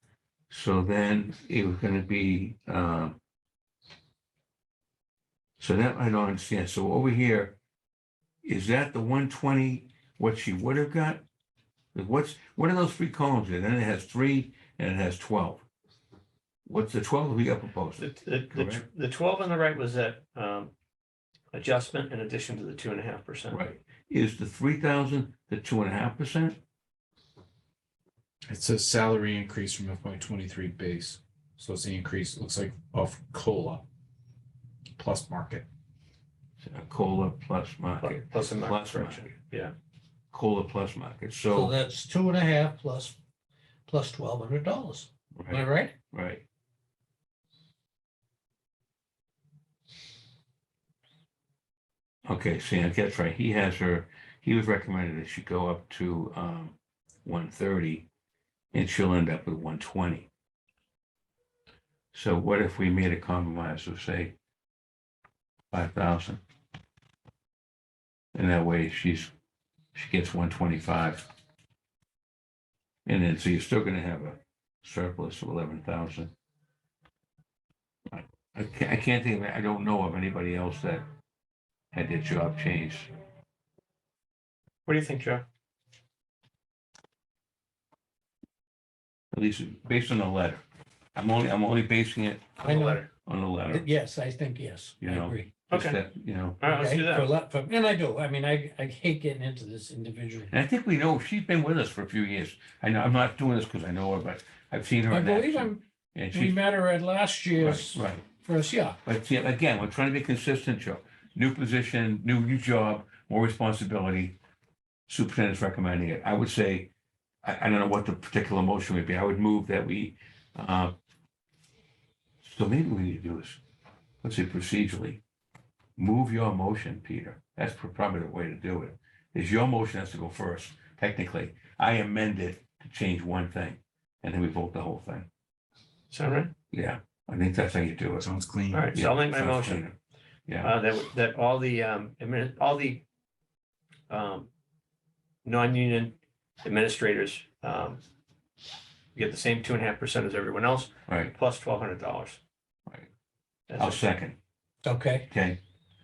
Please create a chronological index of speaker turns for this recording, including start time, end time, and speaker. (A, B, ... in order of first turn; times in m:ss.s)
0:00.5-0:03.2 A
0:05.6-0:07.6 A
0:08.4-0:11.2 A
0:11.9-0:15.6 A
0:16.6-0:18.8 A
0:18.0-0:20.7 B
0:21.5-0:23.6 B
0:23.5-0:26.6 A
0:28.5-0:33.8 C
0:34.9-0:35.6 C
0:36.6-0:39.2 A
0:38.0-0:39.7 B
0:40.3-0:41.8 A
0:41.5-0:43.2 D
0:43.9-0:45.9 D
0:45.4-0:46.4 A
0:52.2-0:58.1 A
0:58.7-1:00.3 A
1:02.1-1:04.3 A
1:05.7-1:06.4 A
1:08.3-1:09.3 A
1:09.9-1:11.3 A
1:13.0-1:16.3 A
1:18.1-1:21.0 A
1:21.9-1:23.1 A
1:24.8-1:25.4 B
1:29.3-1:30.6 A
1:31.2-1:32.6 A
1:32.6-1:33.1 B
1:32.6-1:33.0 D
1:33.2-1:33.8 A
1:33.7-1:35.5 D
1:35.0-1:36.6 A
1:35.7-1:36.0 B
1:36.6-1:37.3 B
1:36.7-1:40.5 D
1:40.5-1:46.6 A
1:45.1-1:49.0 D
1:47.6-1:48.2 A
1:49.0-1:54.4 A
1:55.1-1:56.9 A
1:57.4-2:00.9 A
2:02.4-2:03.6 A
2:04.2-2:05.2 A
2:06.0-2:15.3 A
2:16.1-2:16.5 B
2:16.7-2:18.3 A
2:18.2-2:18.9 C
2:18.7-2:19.8 B
2:18.9-2:19.9 A
2:20.5-2:20.7 A
2:20.6-2:23.0 B
2:24.1-2:24.5 B
2:25.4-2:28.0 B
2:29.1-2:32.4 B
2:31.1-2:31.3 A
2:33.7-2:34.0 B
2:33.8-2:34.4 A
2:34.8-2:35.3 D
2:35.3-2:35.6 A